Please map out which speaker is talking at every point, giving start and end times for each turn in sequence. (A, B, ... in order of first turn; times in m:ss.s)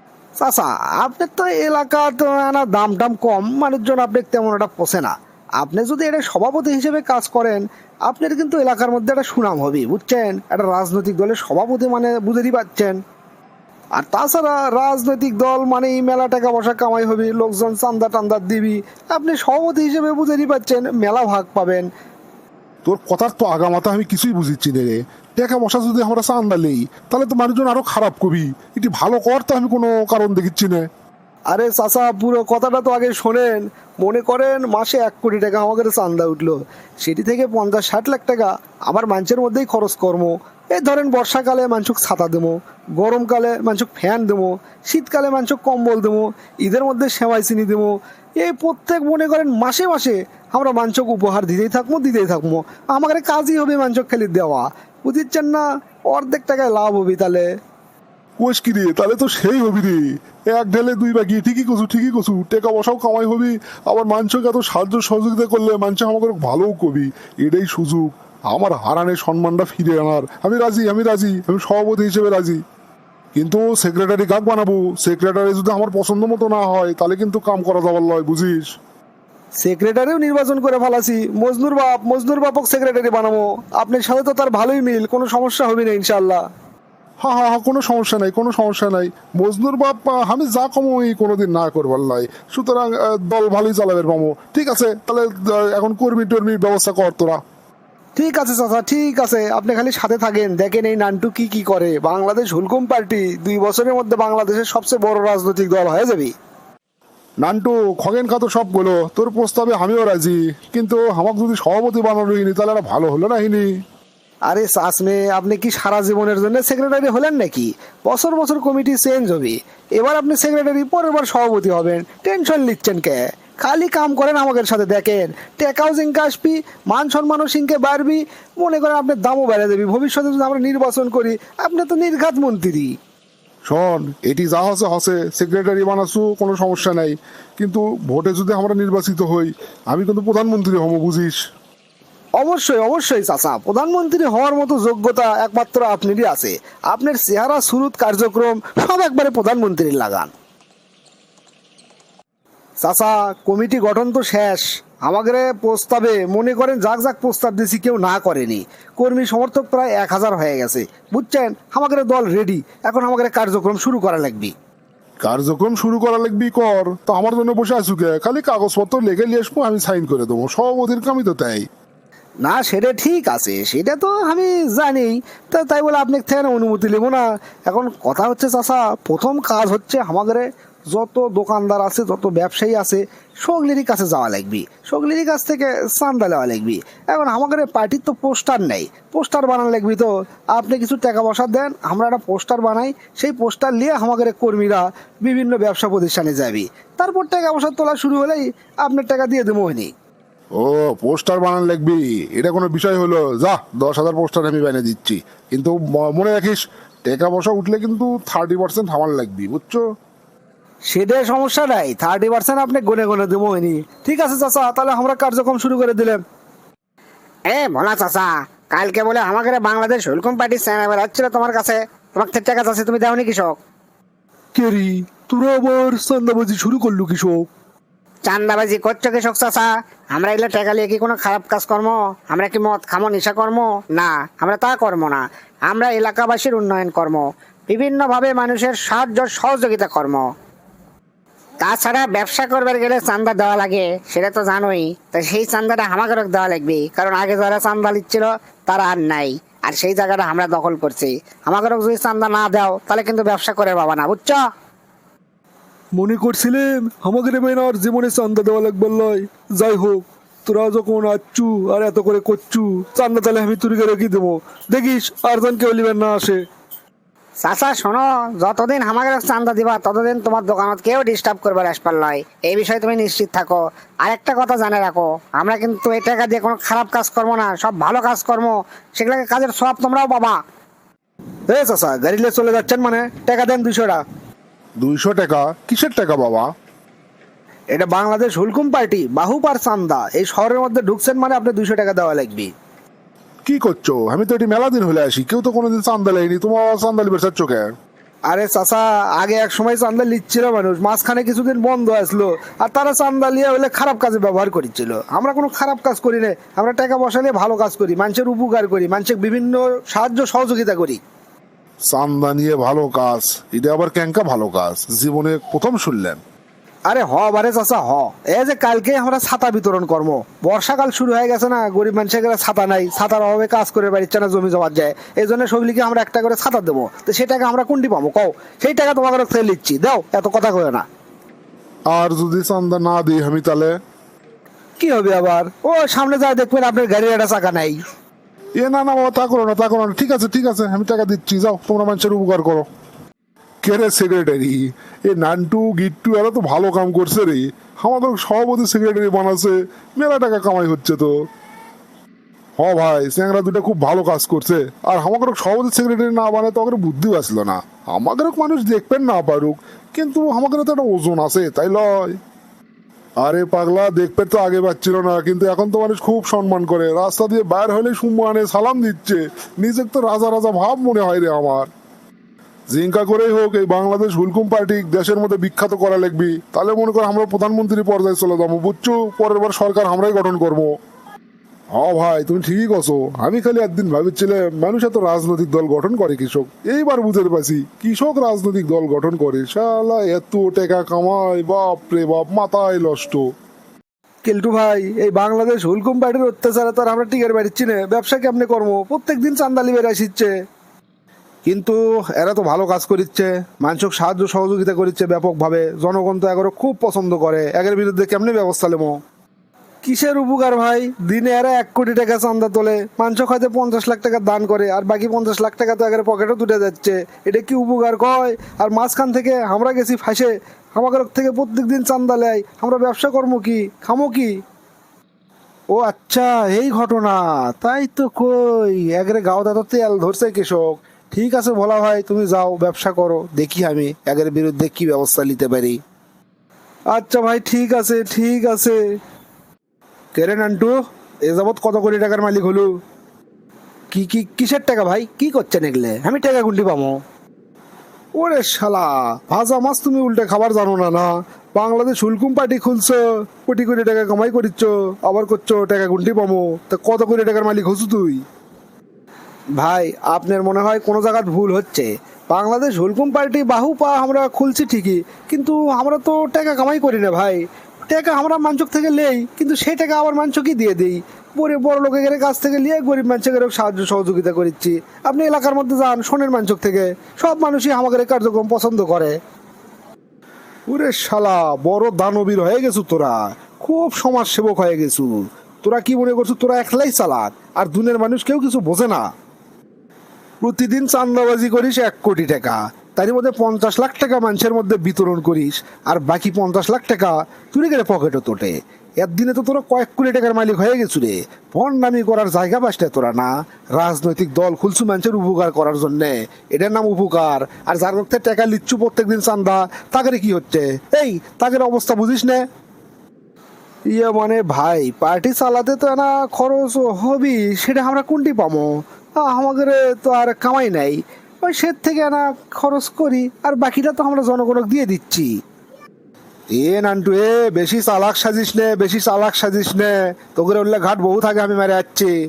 0:00.4-0:13.0 A
0:14.0-0:21.9 A
0:22.8-0:30.9 B
0:31.5-0:57.5 A
0:58.4-1:12.6 B
1:13.3-1:18.7 B
1:19.6-1:26.4 A
1:27.2-1:37.4 B
1:38.2-1:46.3 A
1:47.4-1:53.7 B
1:54.5-2:12.9 A
2:13.7-2:21.4 B
2:22.4-2:30.3 A
2:32.8-2:44.5 A
2:45.2-2:51.7 B
2:52.4-3:19.9 A
3:20.6-3:29.8 B
3:30.9-3:36.2 A
3:37.5-3:43.6 C
3:44.5-3:47.5 B
3:48.2-4:00.3 C
4:01.6-4:14.4 C
4:16.0-4:26.4 A
4:27.4-4:40.4 C
4:41.5-4:44.0 A
4:44.8-4:46.5 B
4:47.7-4:52.5 A
4:53.4-4:57.7 B
4:58.3-5:11.0 A
5:11.9-5:16.2 B
5:16.9-5:30.8 A
5:31.9-5:33.8 B
5:34.8-5:37.8 A
5:38.6-5:42.7 B
5:43.6-5:51.1 B
5:52.6-6:02.2 B
6:03.2-6:11.7 B
6:12.7-6:20.7 B
6:21.7-6:33.3 B
6:34.2-6:40.3 A
6:41.4-6:49.0 A
6:49.8-7:04.4 A
7:05.7-7:15.8 A
7:16.9-7:18.8 A
7:20.1-7:20.7 A
7:21.2-7:22.7 A
7:23.9-7:27.0 A
7:28.2-7:38.2 A
7:39.6-7:59.2 A
8:00.7-8:09.1 A
8:10.4-8:32.5 A
8:33.9-8:45.3 A
8:46.5-8:52.1 A